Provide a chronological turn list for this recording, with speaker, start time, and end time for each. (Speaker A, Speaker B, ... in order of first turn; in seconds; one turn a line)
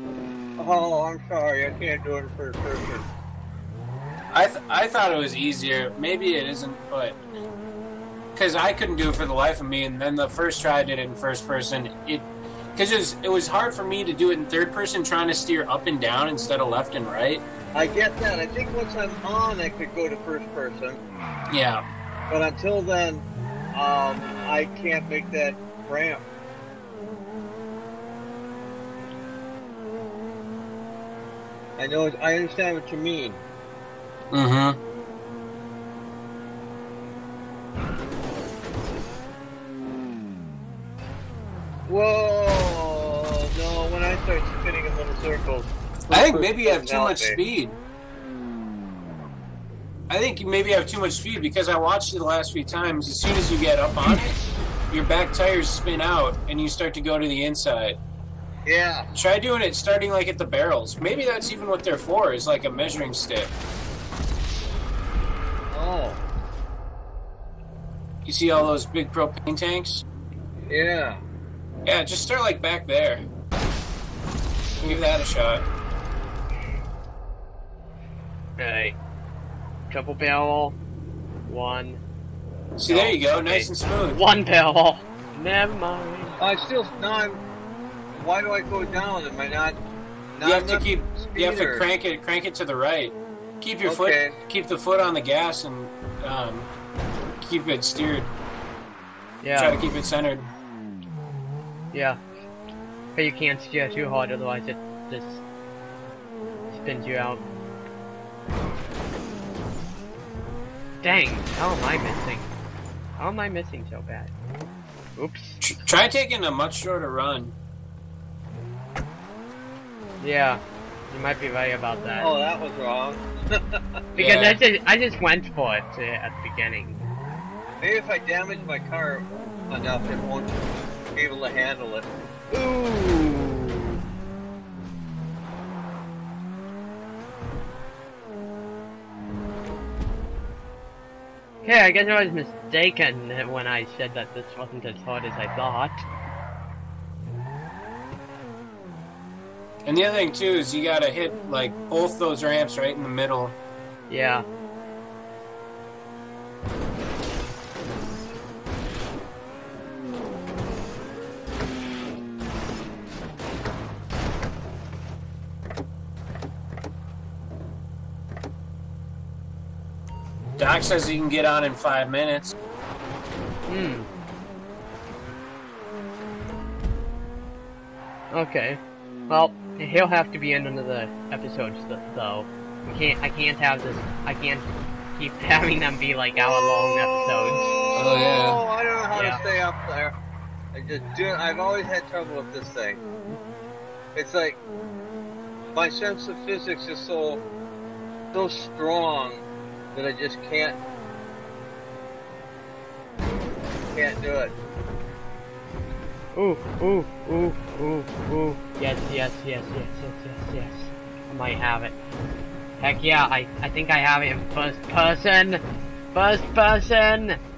Speaker A: 0.6-3.1
Speaker B: 4.3-7.2
Speaker B: 8.3-17.4
Speaker A: 17.7-21.0
Speaker B: 21.5-21.8
Speaker A: 22.3-26.2
Speaker A: 31.8-33.4
Speaker B: 34.3-34.8
Speaker A: 41.9-47.4
Speaker B: 46.1-47.8
Speaker B: 50.1-54.4
Speaker B: 54.9-58.0
Speaker A: 58.6-59.1
Speaker B: 59.1-63.5
Speaker A: 65.7-66.2
Speaker B: 68.2-70.0
Speaker A: 70.7-71.2
Speaker B: 71.8-73.2
Speaker B: 74.8-75.7
Speaker C: 78.6-79.0
Speaker C: 79.9-80.8
Speaker C: 81.5-82.0
Speaker B: 82.8-84.2
Speaker C: 82.9-86.4
Speaker A: 86.4-87.4
Speaker A: 88.1-89.8
Speaker A: 90.3-91.9
Speaker B: 90.4-96.7
Speaker A: 93.8-94.4
Speaker B: 97.4-98.3
Speaker C: 99.4-99.8
Speaker B: 99.5-100.5
Speaker C: 101.9-102.2
Speaker C: 103.2-105.4
Speaker C: 106.7-107.4
Speaker C: 111.0-112.5
Speaker C: 113.2-114.3
Speaker C: 115.2-115.6
Speaker B: 115.6-117.5
Speaker C: 120.2-122.3
Speaker A: 122.2-124.0
Speaker B: 124.1-124.6
Speaker C: 124.2-127.0
Speaker A: 127.8-130.6
Speaker A: 131.1-132.1
Speaker C: 132.5-134.0
Speaker C: 141.6-146.0
Speaker B: 149.8-153.6
Speaker C: 154.1-154.4
Speaker B: 170.6-172.5
Speaker C: 173.7-174.1
Speaker C: 178.3-187.7
Speaker A: 186.4-190.1
Speaker B: 187.9-188.6
Speaker C: 189.1-189.4
Speaker A: 190.7-193.0
Speaker A: 194.1-194.6
Speaker A: 195.7-197.4
Speaker A: 198.3-200.8
Speaker A: 203.9-204.5
Speaker C: 206.3-211.9
Speaker C: 212.8-215.6
Speaker C: 216.1-217.4